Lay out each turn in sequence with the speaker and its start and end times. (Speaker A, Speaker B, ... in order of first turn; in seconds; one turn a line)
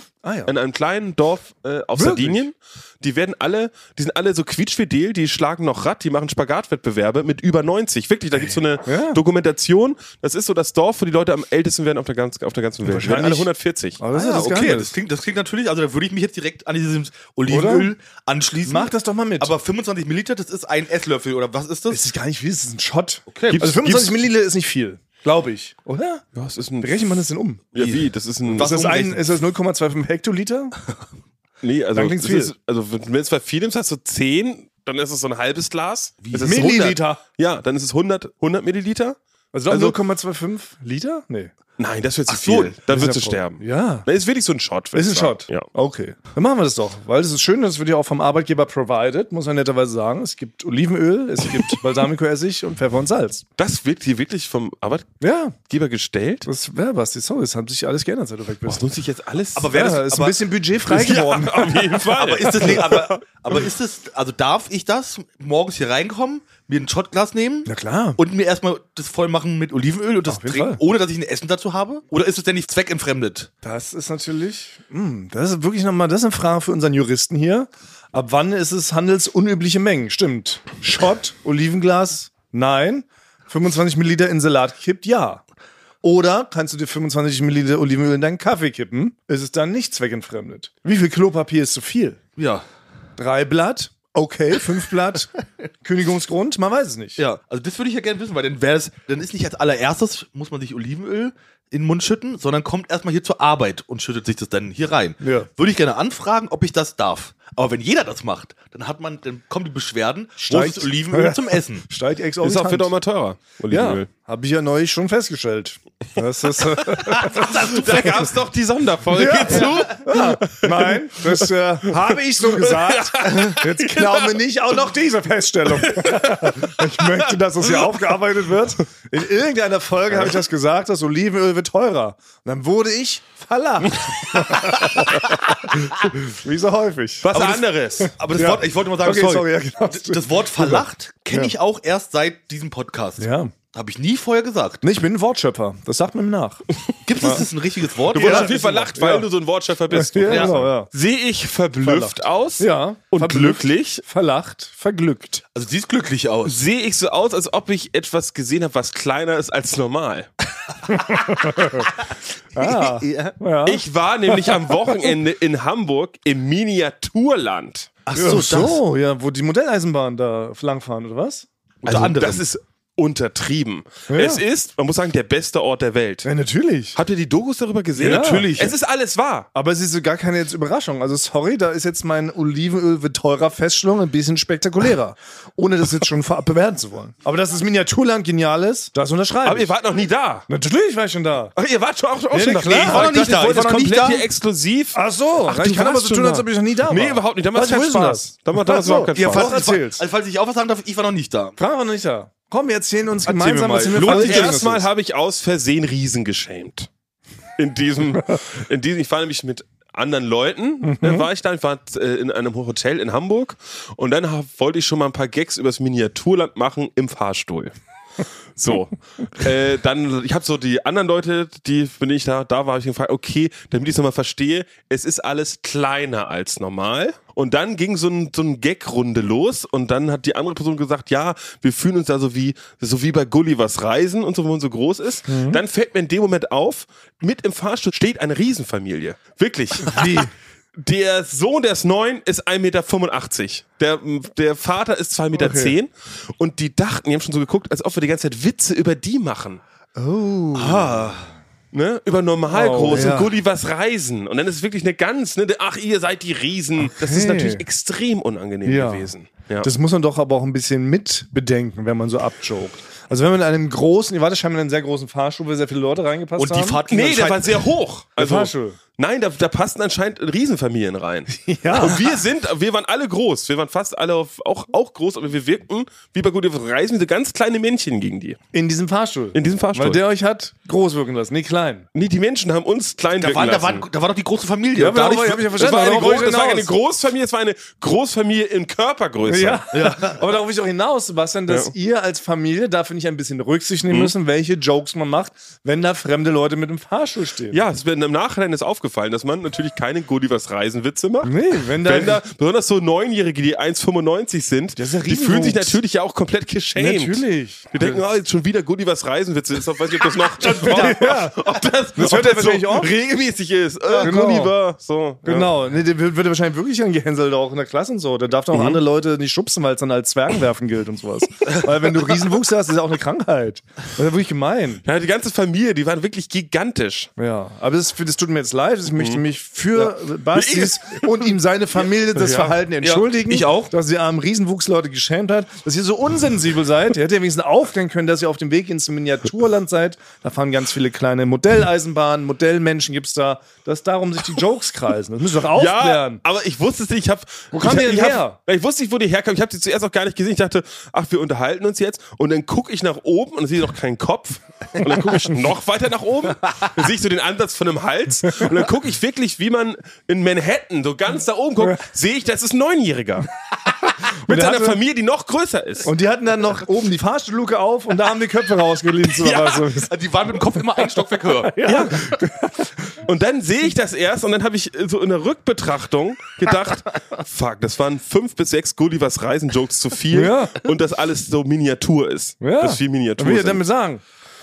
Speaker A: 0.2-0.5
Speaker B: 0.5-14.0
Speaker A: 1.9-2.4
Speaker A: 8.8-9.2
Speaker A: 12.8-14.9
Speaker C: 14.1-22.0
Speaker A: 17.5-17.9
Speaker A: 18.6-19.5
Speaker A: 21.9-26.2
Speaker C: 23.3-23.6
Speaker B: 23.5-24.2
Speaker B: 26.4-27.2
Speaker A: 26.8-27.6
Speaker B: 27.7-29.0
Speaker C: 27.8-29.2
Speaker A: 28.5-30.8
Speaker B: 31.6-39.2
Speaker A: 31.9-32.5
Speaker C: 36.2-36.9
Speaker A: 36.4-37.2
Speaker A: 39.5-41.5
Speaker B: 39.7-40.0
Speaker B: 41.8-45.7
Speaker C: 42.3-42.8
Speaker A: 42.9-44.0
Speaker A: 44.9-53.4
Speaker B: 53.6-56.5
Speaker A: 55.2-55.5
Speaker A: 56.5-58.8
Speaker B: 58.6-59.8
Speaker C: 59.5-60.4
Speaker A: 59.6-63.0
Speaker B: 60.9-63.2
Speaker C: 62.1-73.5
Speaker A: 67.7-68.2
Speaker A: 70.2-70.8
Speaker A: 73.6-85.4
Speaker A: 86.0-92.2
Speaker C: 92.4-92.6
Speaker A: 93.2-97.2
Speaker C: 97.2-111.8
Speaker A: 105.2-105.5
Speaker A: 110.4-112.9
Speaker B: 112.4-114.1
Speaker A: 113.7-118.3
Speaker B: 117.0-124.3
Speaker C: 117.2-118.0
Speaker A: 119.1-137.3
Speaker B: 125.8-127.2
Speaker B: 137.2-138.1
Speaker C: 137.3-144.8
Speaker A: 138.0-141.5
Speaker A: 143.2-143.5
Speaker A: 144.8-146.6
Speaker C: 147.0-148.9
Speaker A: 147.2-147.5
Speaker B: 148.1-154.0
Speaker A: 148.2-149.3
Speaker A: 149.9-150.9
Speaker C: 150.2-150.5
Speaker A: 151.8-155.4
Speaker C: 155.5-156.6
Speaker B: 156.4-160.3
Speaker A: 160.9-161.9
Speaker C: 161.1-161.9
Speaker A: 162.5-164.6
Speaker C: 162.6-163.4
Speaker B: 163.7-167.9
Speaker C: 168.1-168.8
Speaker A: 168.2-171.5
Speaker C: 171.8-172.4
Speaker B: 171.8-176.3
Speaker A: 174.1-174.4
Speaker A: 176.2-177.0
Speaker B: 176.9-179.5
Speaker A: 178.0-178.5
Speaker C: 178.0-178.7
Speaker A: 179.5-189.7
Speaker B: 189.4-190.4
Speaker A: 190.5-191.6
Speaker B: 191.6-199.6
Speaker A: 192.3-193.9
Speaker C: 192.7-194.2
Speaker A: 194.9-200.0
Speaker C: 199.1-201.6
Speaker A: 201.6-204.8
Speaker C: 203.2-204.6
Speaker B: 203.9-206.9
Speaker B: 207.6-217.7
Speaker A: 210.8-211.2
Speaker B: 218.6-240.2
Speaker A: 235.3-235.6
Speaker A: 239.8-240.3
Speaker B: 240.8-249.6
Speaker A: 245.3-245.8
Speaker A: 249.9-251.1
Speaker C: 250.5-251.3
Speaker B: 251.7-259.7
Speaker A: 252.5-253.3
Speaker A: 256.8-257.6
Speaker A: 258.6-266.8
Speaker C: 266.4-267.6
Speaker B: 266.9-278.4
Speaker A: 268.2-268.8
Speaker A: 271.3-272.2
Speaker A: 278.5-281.9
Speaker B: 279.3-280.0
Speaker B: 281.9-283.9
Speaker C: 283.2-285.5
Speaker A: 284.8-286.7
Speaker B: 285.5-289.6
Speaker A: 289.2-297.6
Speaker C: 289.7-290.2
Speaker B: 297.5-315.5
Speaker A: 301.2-302.2
Speaker A: 304.8-305.8
Speaker A: 306.8-308.0
Speaker A: 310.4-311.4
Speaker A: 311.9-312.9
Speaker A: 314.0-314.5
Speaker A: 315.2-324.8
Speaker B: 318.5-318.8
Speaker B: 324.8-327.1
Speaker A: 327.2-346.2
Speaker B: 329.0-329.2
Speaker B: 330.3-331.1
Speaker B: 332.1-332.5
Speaker C: 332.8-333.7
Speaker B: 345.5-363.3
Speaker A: 347.5-348.4
Speaker A: 364.2-364.8
Speaker B: 364.2-365.9
Speaker A: 365.8-369.9
Speaker C: 369.6-371.9
Speaker A: 371.4-372.9
Speaker B: 371.6-372.1
Speaker B: 373.0-383.6
Speaker A: 380.1-380.7
Speaker A: 382.4-384.0